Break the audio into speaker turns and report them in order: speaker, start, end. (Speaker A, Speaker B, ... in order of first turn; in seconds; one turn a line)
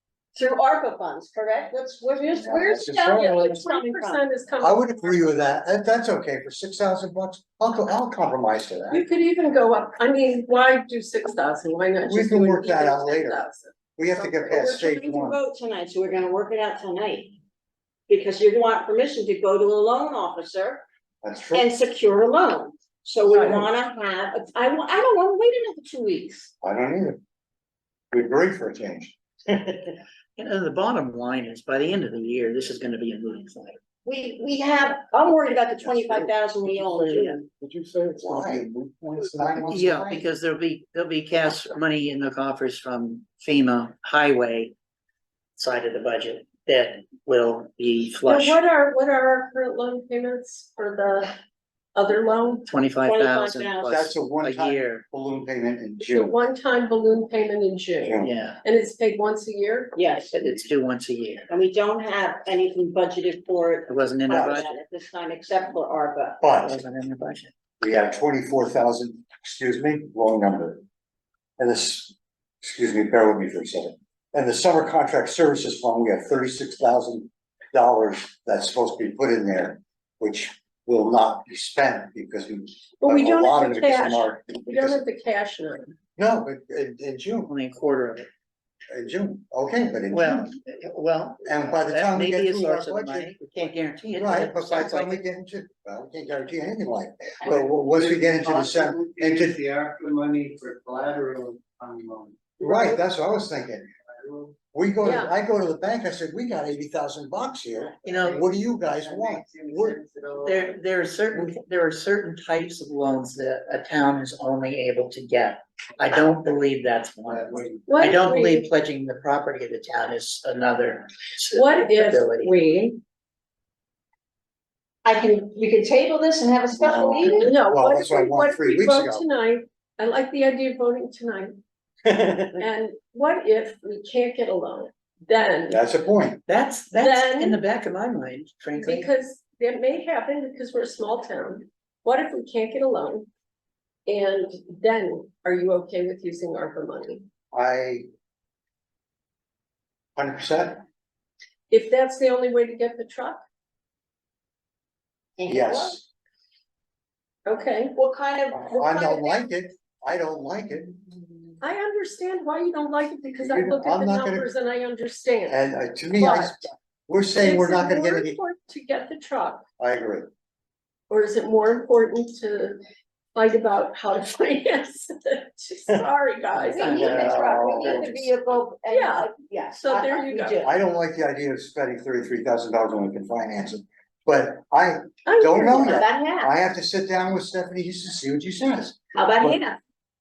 Speaker A: 0.3-4.2
Speaker B: 2.4-3.5
Speaker C: 3.1-5.2
Speaker B: 4.6-9.0
Speaker C: 8.9-14.7
Speaker B: 12.1-13.4
Speaker B: 14.0-15.4
Speaker A: 14.5-17.4
Speaker A: 18.1-20.8
Speaker B: 21.2-21.7
Speaker A: 21.5-26.5
Speaker B: 26.6-27.2
Speaker B: 28.1-30.0
Speaker D: 30.4-33.8
Speaker A: 34.0-37.4
Speaker E: 36.0-39.8
Speaker D: 37.1-37.4
Speaker B: 38.2-40.2
Speaker D: 39.7-44.7
Speaker D: 45.5-48.6
Speaker C: 48.2-51.4
Speaker C: 51.9-52.7
Speaker D: 52.6-55.0
Speaker A: 53.0-54.0
Speaker B: 53.9-56.4
Speaker C: 56.0-60.1
Speaker B: 58.0-58.3
Speaker D: 58.2-58.6
Speaker A: 59.9-60.6
Speaker D: 60.3-61.5
Speaker A: 61.5-66.4
Speaker D: 63.9-64.7
Speaker B: 64.3-64.6
Speaker B: 66.4-66.8
Speaker D: 66.6-67.5
Speaker B: 67.8-70.8
Speaker B: 71.6-85.0
Speaker C: 83.0-85.9
Speaker B: 86.2-87.5
Speaker D: 87.5-88.3
Speaker B: 88.9-90.5
Speaker D: 90.1-95.2
Speaker B: 91.4-93.3
Speaker B: 94.1-99.6
Speaker E: 97.5-103.0
Speaker B: 102.6-103.9
Speaker E: 104.2-104.5
Speaker B: 104.7-110.0
Speaker C: 105.0-105.3
Speaker E: 107.8-110.8
Speaker D: 108.0-108.5
Speaker D: 110.4-122.5
Speaker E: 117.2-118.1
Speaker C: 117.9-118.7
Speaker C: 121.5-123.0
Speaker A: 125.0-127.5
Speaker B: 126.7-129.2
Speaker C: 127.2-131.6
Speaker B: 132.1-132.6
Speaker C: 132.6-135.8
Speaker B: 135.7-136.4
Speaker D: 136.4-139.1
Speaker C: 137.0-137.6
Speaker C: 138.8-143.3
Speaker C: 144.1-147.2
Speaker B: 147.5-148.0
Speaker B: 150.2-150.8
Speaker C: 151.7-153.4
Speaker A: 155.4-156.0
Speaker B: 155.4-156.1
Speaker C: 157.4-157.9
Speaker A: 157.9-159.4
Speaker B: 158.5-161.2
Speaker C: 161.6-165.6
Speaker B: 163.4-164.5
Speaker B: 165.5-168.4
Speaker C: 166.2-166.7
Speaker C: 167.4-169.6
Speaker B: 169.8-170.3
Speaker C: 171.1-172.8
Speaker C: 173.3-177.3
Speaker A: 176.7-180.7
Speaker D: 176.7-178.2
Speaker B: 176.8-178.2
Speaker C: 178.9-180.7
Speaker B: 180.6-189.6
Speaker C: 185.2-186.1
Speaker A: 185.8-186.5
Speaker A: 189.1-189.8